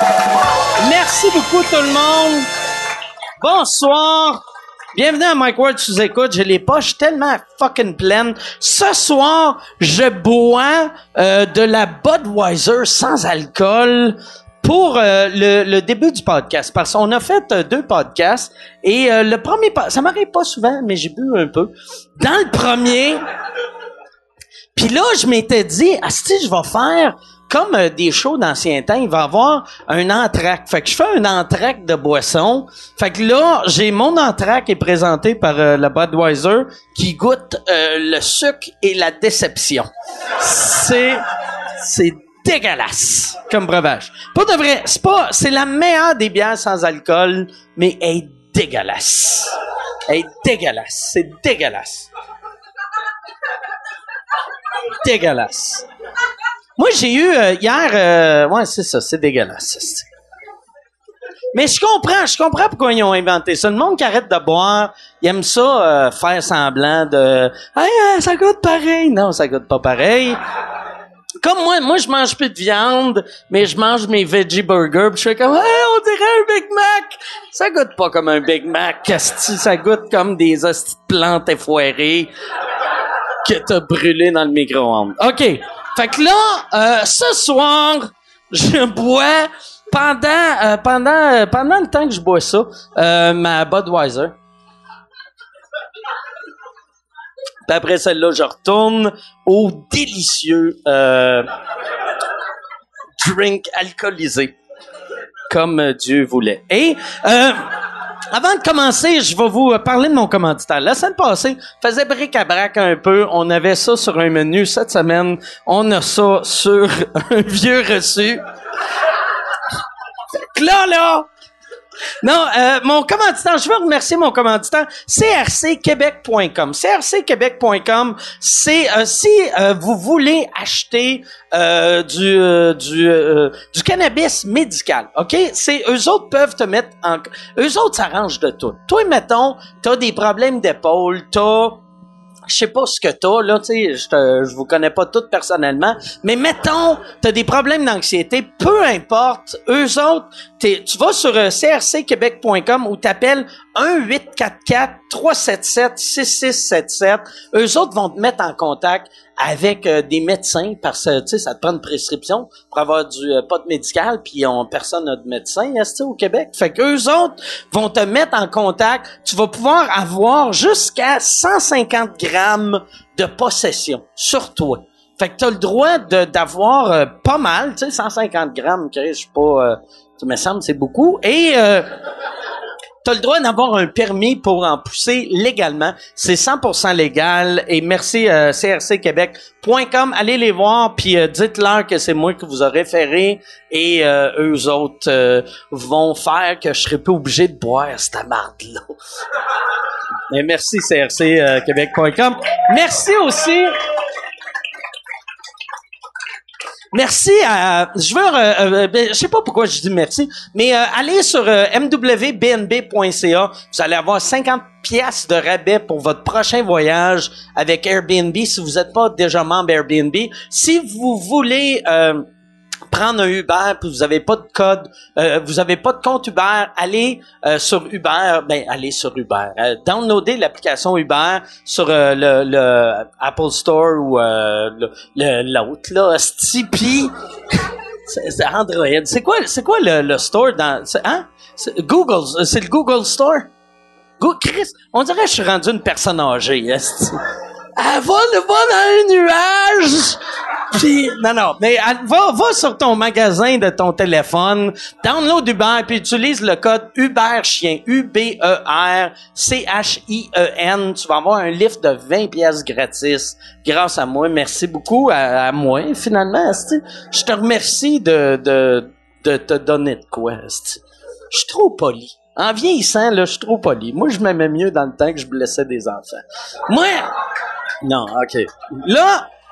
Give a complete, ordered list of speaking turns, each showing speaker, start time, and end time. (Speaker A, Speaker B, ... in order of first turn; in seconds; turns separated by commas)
Speaker A: 0.8-2.5, Speaker A: 3.4-4.4, Speaker A: 4.9-23.2, Speaker A: 24.8-41.2, Speaker A: 41.8-49.5, Speaker A: 50.1-52.1, Speaker A: 55.0-55.8, Speaker A: 56.8-60.0, Speaker A: 61.5-70.4, Speaker A: 71.4-82.3, Speaker A: 83.4-94.3, Speaker A: 97.7-101.5, Speaker A: 103.2-104.5, Speaker A: 105.5-107.6, Speaker A: 108.3-118.4, Speaker A: 120.5-121.3, Speaker A: 122.2-141.8, Speaker A: 142.5-181.9, Speaker A: 183.0-199.0, Speaker A: 200.3-203.8, Speaker A: 206.9-222.2, Speaker A: 222.9-243.5, Speaker A: 244.2-247.2, Speaker A: 247.8-250.2, Speaker A: 250.7-277.1, Speaker A: 277.8-279.3